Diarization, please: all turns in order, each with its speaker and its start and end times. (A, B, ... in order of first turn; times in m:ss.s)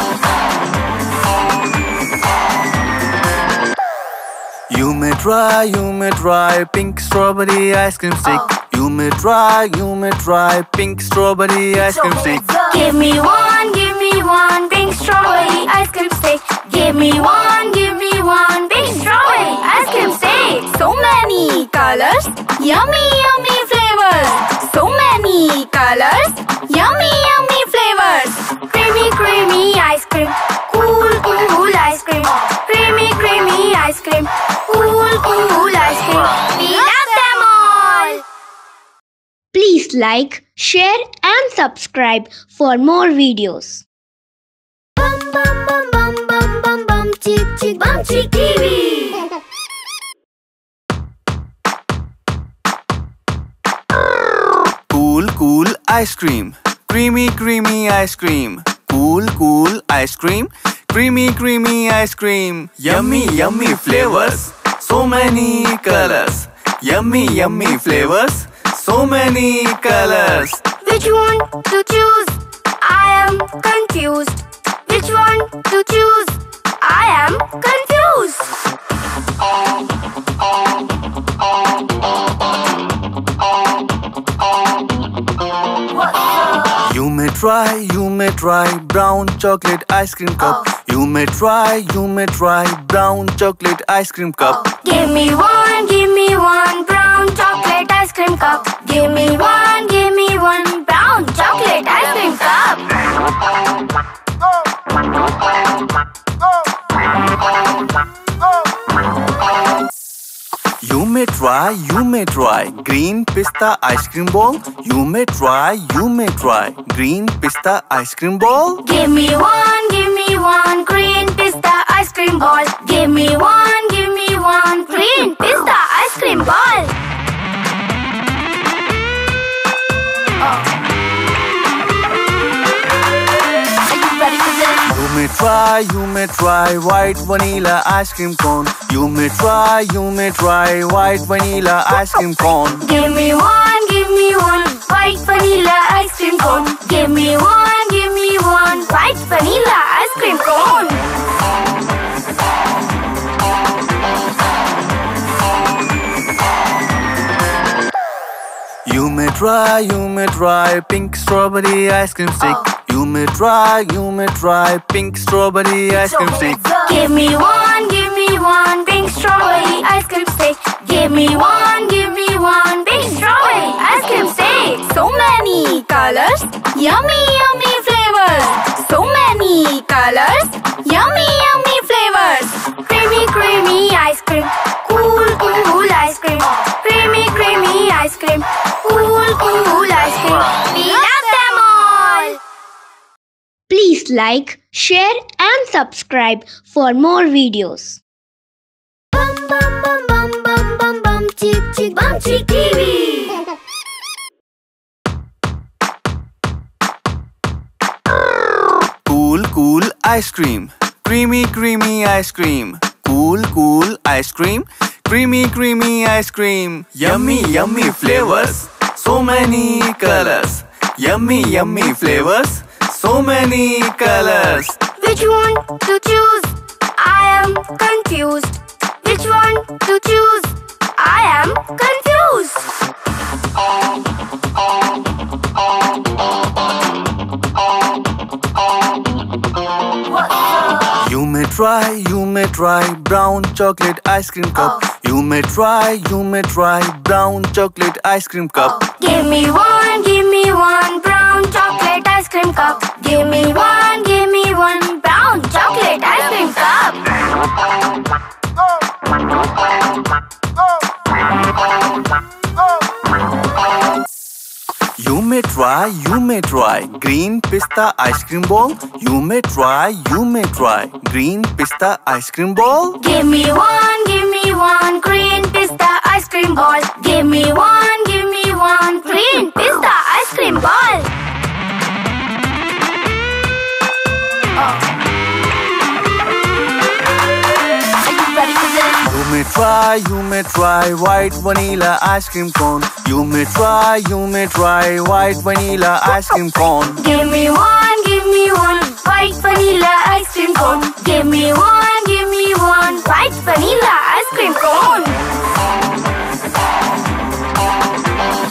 0:04.7-0:12.5 A
0:12.4-0:38.2 B
0:39.5-0:43.8 C
0:45.4-0:49.3 B
0:54.9-1:10.7 A
1:10.8-1:18.6 B
1:26.7-1:34.7 A
1:34.7-1:43.0 B
1:50.8-1:58.8 A
1:58.8-2:07.0 B
2:14.8-2:22.8 A
2:22.8-2:31.0 B
2:38.8-2:46.6 A
2:46.6-3:12.4 B
3:13.7-3:18.0 C
3:19.2-3:23.4 B
3:29.0-3:44.8 A
3:45.0-3:52.8 B
4:00.9-4:08.8 A
4:08.8-4:17.2 B
4:25.0-4:33.0 A
4:33.0-4:41.2 B
4:49.0-4:57.0 A
4:57.0-5:05.2 B